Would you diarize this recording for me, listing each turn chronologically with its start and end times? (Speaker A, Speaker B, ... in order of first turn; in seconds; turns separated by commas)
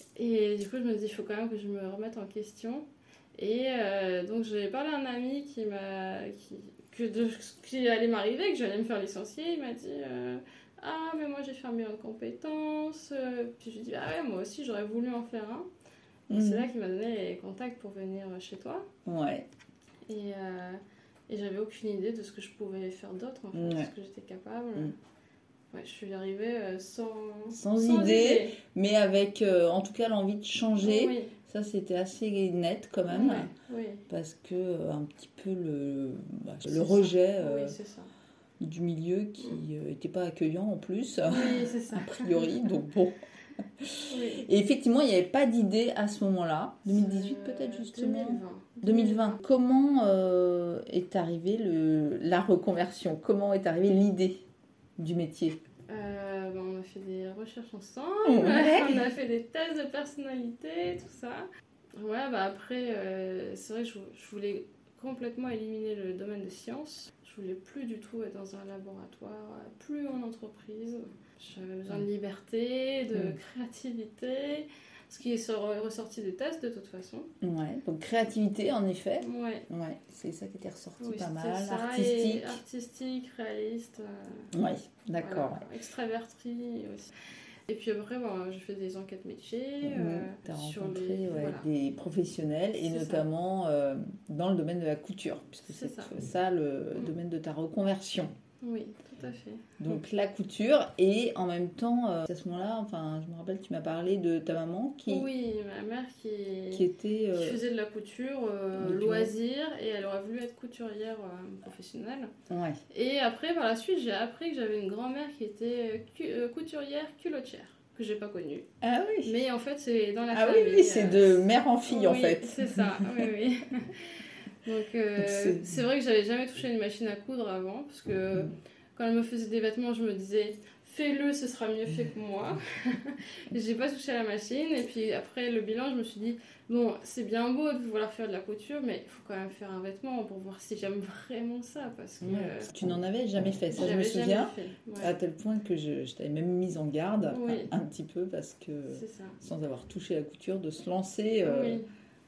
Speaker A: 0.1-15.7, Speaker B: 16.3-16.7, Speaker A: 16.3-18.8, Speaker B: 19.1-19.5, Speaker A: 20.1-24.9, Speaker B: 23.5-23.9, Speaker A: 25.7-28.6, Speaker B: 27.5-33.5, Speaker A: 30.8-31.3, Speaker A: 33.1-34.0, Speaker B: 34.1-37.7, Speaker A: 36.7-38.1, Speaker B: 38.6-54.4, Speaker A: 41.2-42.8, Speaker A: 44.1-44.5, Speaker A: 46.9-49.4, Speaker B: 55.0-55.6, Speaker A: 55.9-77.3, Speaker B: 58.2-59.0, Speaker B: 77.4-82.6, Speaker A: 79.2-79.7, Speaker A: 81.0-84.5, Speaker B: 84.5-85.6, Speaker A: 85.2-87.1, Speaker A: 87.7-91.7, Speaker B: 89.8-98.3, Speaker A: 92.8-93.2, Speaker A: 95.7-96.1, Speaker A: 98.6-99.9, Speaker B: 99.8-105.3, Speaker A: 105.1-112.3, Speaker B: 106.7-107.6, Speaker B: 108.8-109.3, Speaker B: 112.5-112.8, Speaker A: 112.9-118.7, Speaker B: 118.8-119.3, Speaker A: 119.2-142.7, Speaker B: 120.3-123.3, Speaker B: 125.2-125.8, Speaker B: 142.2-151.8, Speaker A: 143.7-145.1, Speaker A: 147.2-147.7, Speaker A: 148.9-149.4, Speaker A: 151.4-151.9